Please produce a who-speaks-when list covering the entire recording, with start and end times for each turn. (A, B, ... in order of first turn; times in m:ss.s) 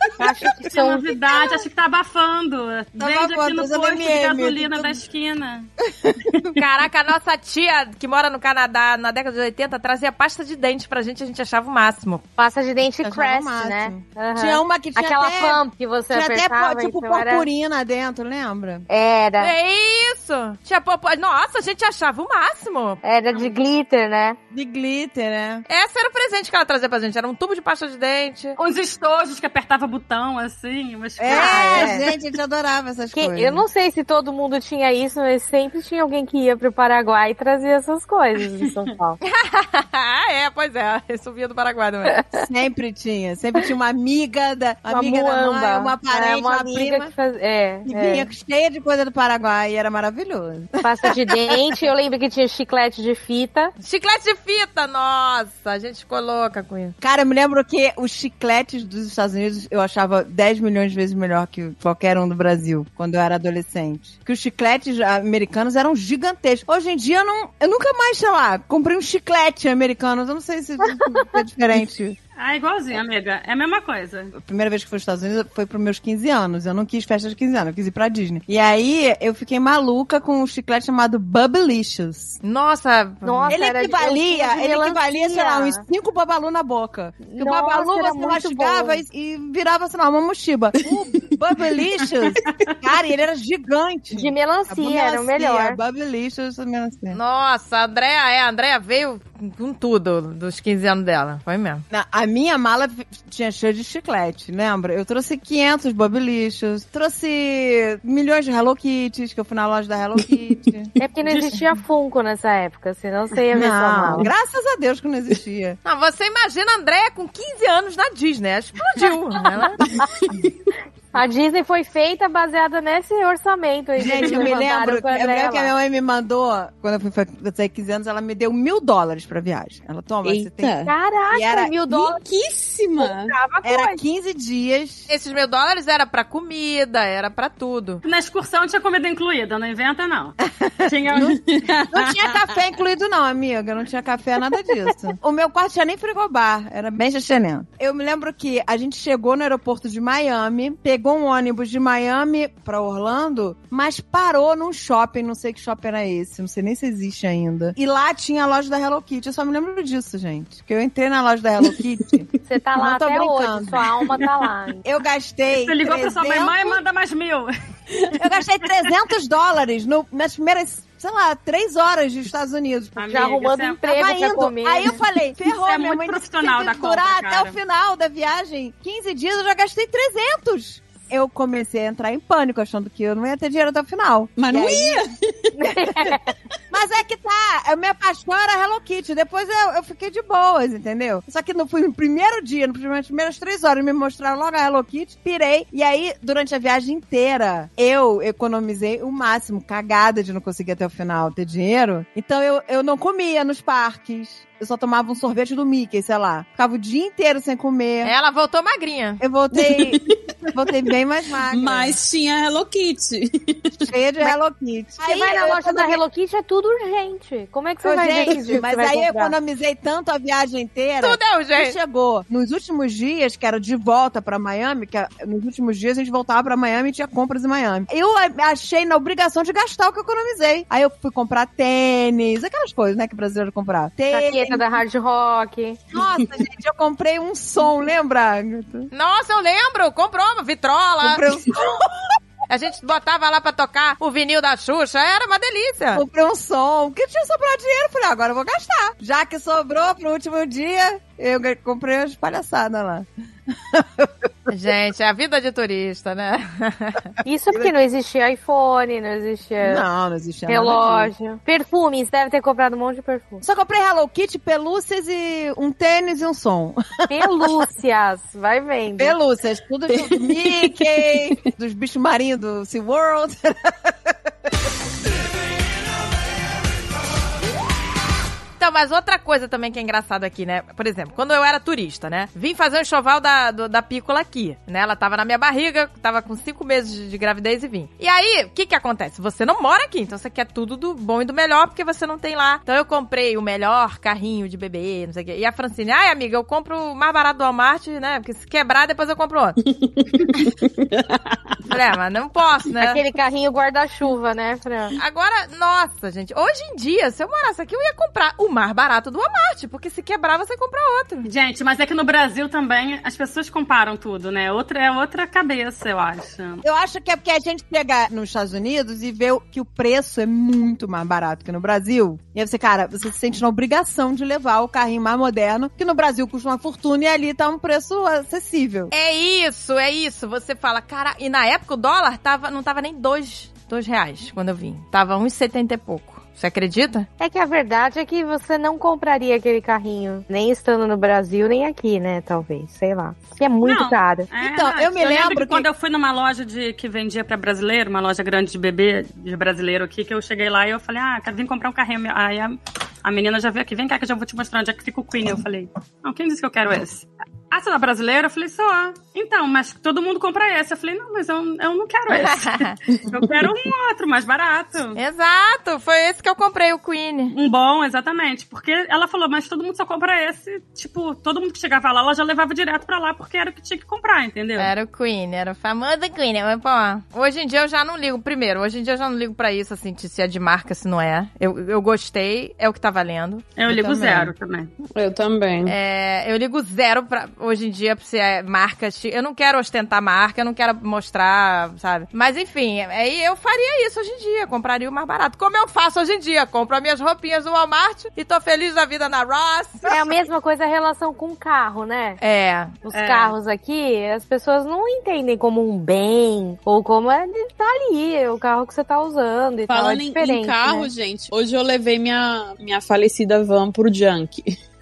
0:00.2-0:01.1 A
0:00.6-0:05.7 B
0:03.0-0:05.0 C
0:05.9-0:06.3 C
0:06.3-0:06.6 B
0:06.6-0:12.2 D
0:12.4-0:17.5 A
0:13.0-0:18.8 C
0:18.9-0:19.5 A
0:19.4-0:23.0 D
0:23.0-0:24.4 A
0:24.5-0:25.6 C
0:25.7-0:28.6 D
0:28.6-0:32.1 B
0:31.2-0:33.6 C
0:31.3-0:32.1 A
0:33.1-0:39.2 A
0:39.2-0:42.2 D
0:42.1-0:42.4 A
0:42.3-0:47.1 C
0:44.9-0:48.3 A
0:47.9-0:51.6 C
0:50.8-0:53.7 A
0:53.8-0:57.0 D
0:57.0-1:12.2 C
1:12.4-1:14.3 B
1:14.4-1:22.4 C
1:22.4-1:23.6 D
1:23.2-1:25.8 A
1:23.5-1:37.2 C
1:27.3-1:29.0 A
1:34.1-1:35.8 A
1:37.1-1:41.8 D
1:41.9-1:50.9 C
1:51.0-1:54.3 A
1:51.3-1:51.6 E
1:53.5-1:55.8 C
1:55.8-1:59.8 D
1:59.9-2:00.5 E
2:01.1-2:05.7 A
2:04.0-2:11.8 C
2:10.2-2:10.9 E
2:10.8-2:12.2 A
2:12.0-2:13.4 E
2:13.0-2:14.0 A
2:13.6-2:15.1 C
2:15.1-2:18.0 D
2:18.0-2:21.4 B
2:20.6-2:21.4 C
2:21.4-2:22.4 E
2:21.9-2:43.9 C
2:42.4-2:44.8 A
2:44.8-2:46.8 C
2:45.5-2:47.5 B
2:47.9-2:48.2 E
2:48.2-2:53.3 C
2:53.0-2:53.8 B
2:53.1-2:55.0 A
2:53.9-3:05.0 C
2:55.4-2:57.6 B
3:04.4-3:06.2 E
3:05.6-3:06.3 A
3:06.7-3:28.1 C
3:28.0-3:29.2 D
3:29.2-3:32.0 C
3:29.5-3:30.2 E
3:31.4-3:33.9 E
3:33.8-3:36.0 C
3:35.0-3:39.3 A
3:37.8-3:54.7 C
3:41.0-3:41.8 D
3:54.1-3:55.8 A
3:55.9-3:58.9 C
3:58.9-4:01.2 D
4:01.0-4:02.1 C
4:02.5-4:06.0 D
4:05.9-4:14.3 C
4:14.5-4:17.1 D
4:17.2-4:19.8 A
4:19.6-4:21.1 C
4:20.5-4:23.4 A
4:23.4-4:27.1 C
4:27.1-4:29.2 A
4:29.0-4:34.1 C
4:29.9-4:30.9 E
4:38.6-4:59.6 D
4:59.9-5:01.4 E
5:01.7-5:03.0 D
5:02.8-5:05.0 A
5:05.0-5:11.3 D
5:11.2-5:16.6 B
5:16.6-5:28.9 C
5:28.9-5:37.1 D
5:37.2-5:44.3 A
5:43.6-6:05.0 B
5:44.4-5:45.7 C
6:02.1-6:02.8 D
6:04.9-6:07.4 D
6:07.3-6:14.7 B
6:14.6-6:23.5 D
6:23.6-6:24.7 B
6:23.7-6:24.3 C
6:24.9-6:25.7 E
6:25.6-6:39.9 D
6:39.9-6:42.2 A
6:42.2-6:42.8 D
6:42.8-6:50.9 A
6:42.9-6:43.3 B
6:49.7-6:54.5 E